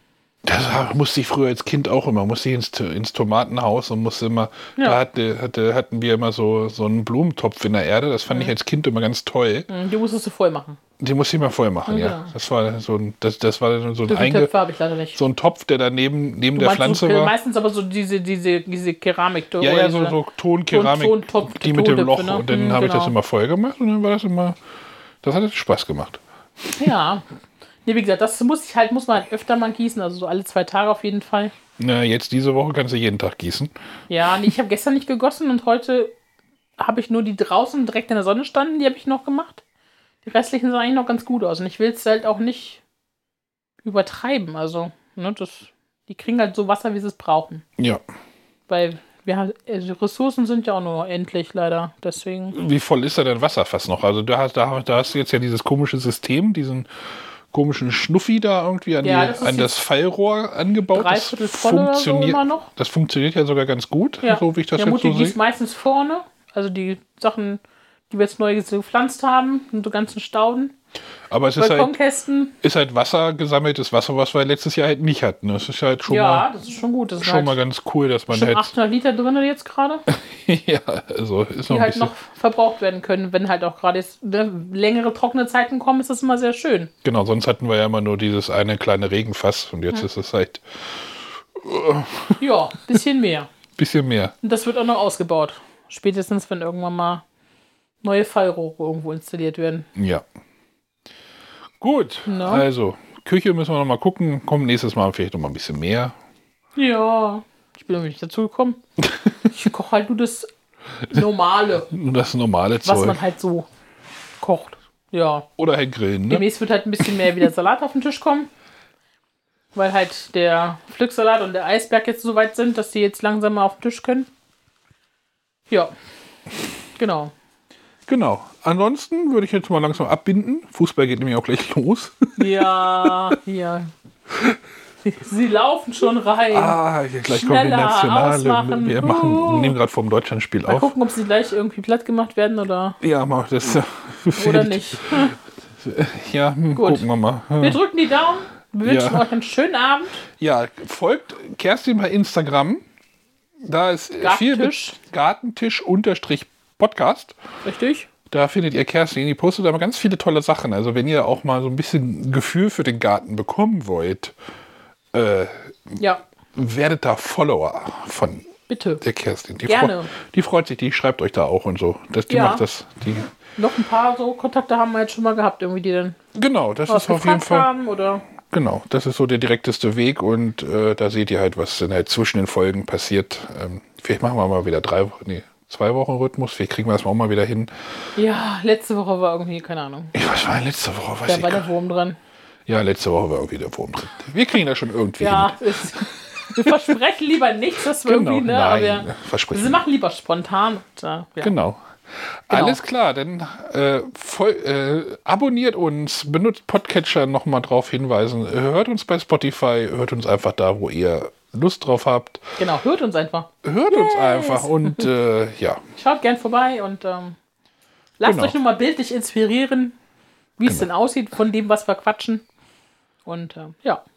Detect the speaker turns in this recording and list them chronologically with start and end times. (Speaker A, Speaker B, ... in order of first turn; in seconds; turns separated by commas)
Speaker A: 0.4-9.7, Speaker B: 9.7-10.8, Speaker A: 11.0-14.5, Speaker B: 11.9-12.3, Speaker B: 14.1-15.2, Speaker A: 15.1-17.3, Speaker B: 16.5-20.2, Speaker A: 19.6-24.6, Speaker B: 20.7-23.1, Speaker A: 25.2-26.2, Speaker B: 26.7-27.2, Speaker B: 27.9-31.5, Speaker A: 31.8-33.7, Speaker B: 34.1-36.1, Speaker B: 36.8-39.6, Speaker B: 40.2-42.8, Speaker B: 43.8-47.6, Speaker B: 48.7-52.6, Speaker A: 52.5-56.9, Speaker A: 57.5-65.3, Speaker B: 59.0-59.7, Speaker B: 60.9-62.7, Speaker B: 64.2-70.7, Speaker A: 71.3-71.9, Speaker B: 71.6-72.5, Speaker A: 72.6-76.5, Speaker B: 76.1-77.6, Speaker A: 77.2-78.7, Speaker B: 78.3-80.0, Speaker A: 80.1-82.1, Speaker B: 81.7-86.9, Speaker A: 87.0-92.4, Speaker B: 92.4-93.5, Speaker A: 93.8-94.3, Speaker B: 94.4-97.2, Speaker B: 98.0-99.9, Speaker A: 100.0-100.2, Speaker A: 101.8-106.1, Speaker B: 102.2-102.7, Speaker B: 106.8-108.8, Speaker B: 109.5-110.5, Speaker B: 111.1-111.9, Speaker A: 111.9-113.2, Speaker B: 112.8-113.7, Speaker B: 114.4-115.5, Speaker A: 115.6-116.5, Speaker B: 116.3-118.5, Speaker A: 117.0-117.3, Speaker B: 119.7-124.3, Speaker B: 127.0-127.3, Speaker A: 128.1-133.3, Speaker B: 132.4-133.9, Speaker A: 134.3-134.6, Speaker B: 135.0-139.7, Speaker A: 136.5-140.9, Speaker B: 140.7-143.0, Speaker A: 143.0-145.2, Speaker B: 144.3-145.3, Speaker A: 145.8-147.8, Speaker B: 146.7-147.1, Speaker B: 147.6-150.2, Speaker A: 148.8-149.2, Speaker A: 150.4-152.8, Speaker A: 153.6-157.3, Speaker B: 154.2-154.9, Speaker B: 157.6-158.1, Speaker A: 158.3-164.3, Speaker A: 165.1-166.0, Speaker A: 166.5-168.5, Speaker B: 168.7-169.0, Speaker A: 169.0-173.3, Speaker B: 169.6-170.1, Speaker B: 172.3-172.6, Speaker B: 173.6-176.2, Speaker A: 176.3-177.7, Speaker B: 176.9-178.2, Speaker A: 178.4-187.7, Speaker B: 188.2-190.1, Speaker A: 190.1-191.7, Speaker B: 191.2-192.2, Speaker A: 192.7-196.9, Speaker B: 195.2-201.5, Speaker A: 198.0-199.8, Speaker A: 201.4-212.4, Speaker B: 202.5-202.8, Speaker B: 212.6-215.1, Speaker A: 213.6-215.8, Speaker B: 216.0-217.4, Speaker B: 218.2-219.9, Speaker A: 218.2-218.5, Speaker B: 220.6-222.4, Speaker B: 223.2-224.0